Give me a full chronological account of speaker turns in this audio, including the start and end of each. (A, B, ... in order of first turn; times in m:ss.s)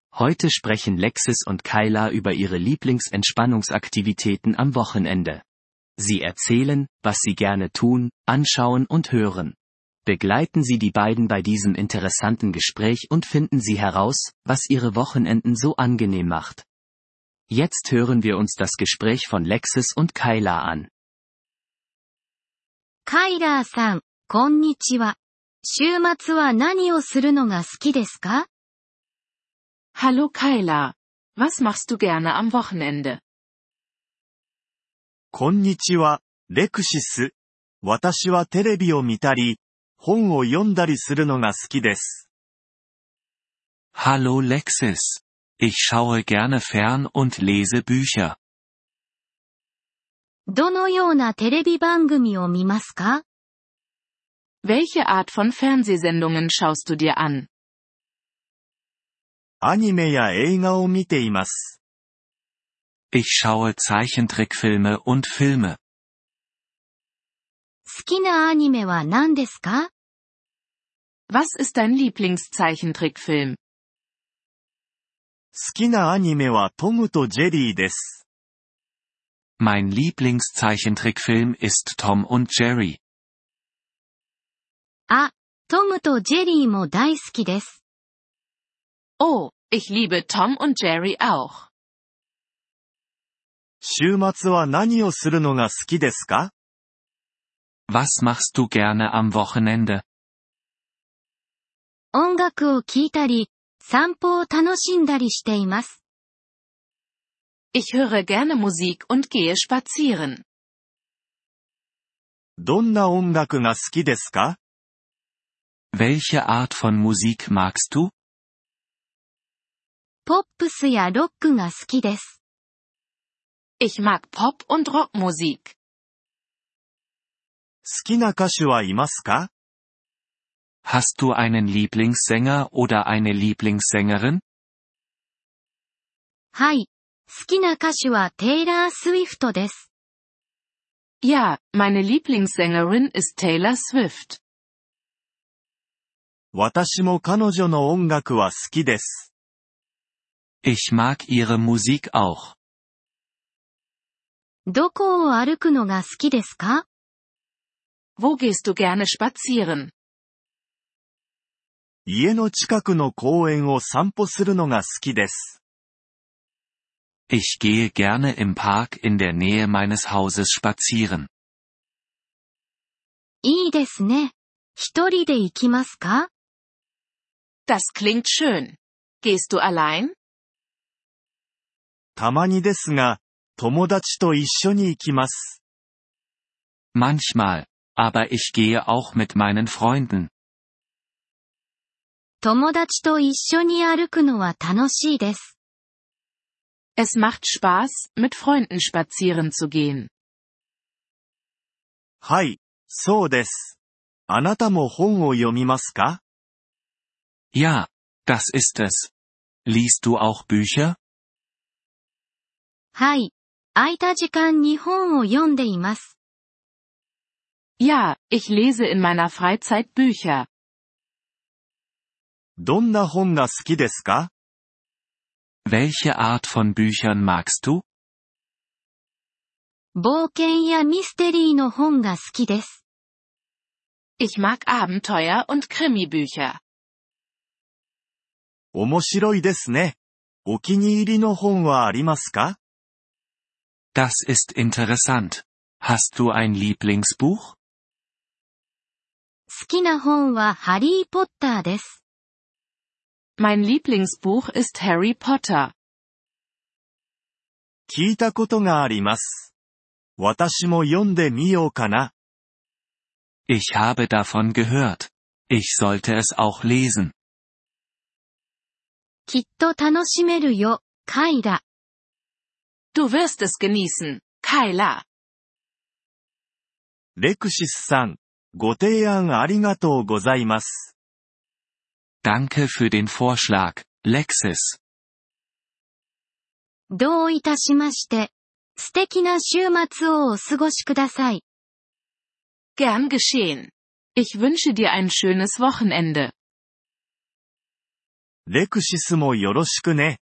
0:00.1-0:05.4 A
0:06.0-0:09.5 A
0:10.0-0:16.6 A
0:17.5-0:20.9 A
0:23.0-0:28.5 B
0:29.9-0:33.2 C
0:35.3-0:42.2 D
0:43.9-0:48.4 E
0:50.5-0:53.2 B
0:54.6-0:57.5 C
0:59.6-1:01.8 D
1:03.1-1:05.8 E
1:07.8-1:09.9 B
1:11.3-1:13.6 C
1:15.5-1:18.2 D
1:19.6-1:23.0 E
1:25.1-1:27.8 B
1:29.2-1:31.7 C
1:33.8-1:36.5 D
1:37.9-1:40.0 E
1:42.1-1:46.0 B
1:47.7-1:50.4 C
1:52.6-1:54.6 D
1:55.9-1:58.1 E
2:00.2-2:02.4 B
2:03.8-2:05.7 C
2:07.8-2:09.5 D
2:10.8-2:14.4 E
2:16.5-2:19.9 B
2:21.2-2:24.4 C
2:26.5-2:29.3 D
2:30.6-2:32.5 E
2:34.7-2:36.8 B
2:38.2-2:39.9 C
2:42.0-2:45.6 D
2:47.3-2:51.3 E
2:53.4-2:56.3 B
2:57.7-3:00.1 C
3:02.2-3:05.6 D
3:06.9-3:10.3 E
3:12.4-3:15.5 B
3:17.0-3:20.1 C
3:22.2-3:23.8 D
3:24.3-3:26.2 D
3:27.5-3:29.1 E
3:29.6-3:31.0 E
3:32.9-3:36.1 B
3:37.8-3:40.5 C
3:42.6-3:44.3 D
3:45.6-3:47.8 E
3:49.9-3:52.8 B
3:54.2-3:56.6 C
3:58.7-4:02.6 D
4:03.9-4:07.6 E
4:09.5-4:12.0 B
4:13.4-4:15.7 C
4:17.9-4:19.5 D
4:20.2-4:22.1 D
4:23.5-4:27.1 E
4:29.3-4:31.6 B
4:32.9-4:35.0 C
4:37.2-4:40.9 D
4:42.2-4:44.8 E
4:46.9-4:51.4 B
4:52.8-4:56.3 C
4:58.5-5:00.2 D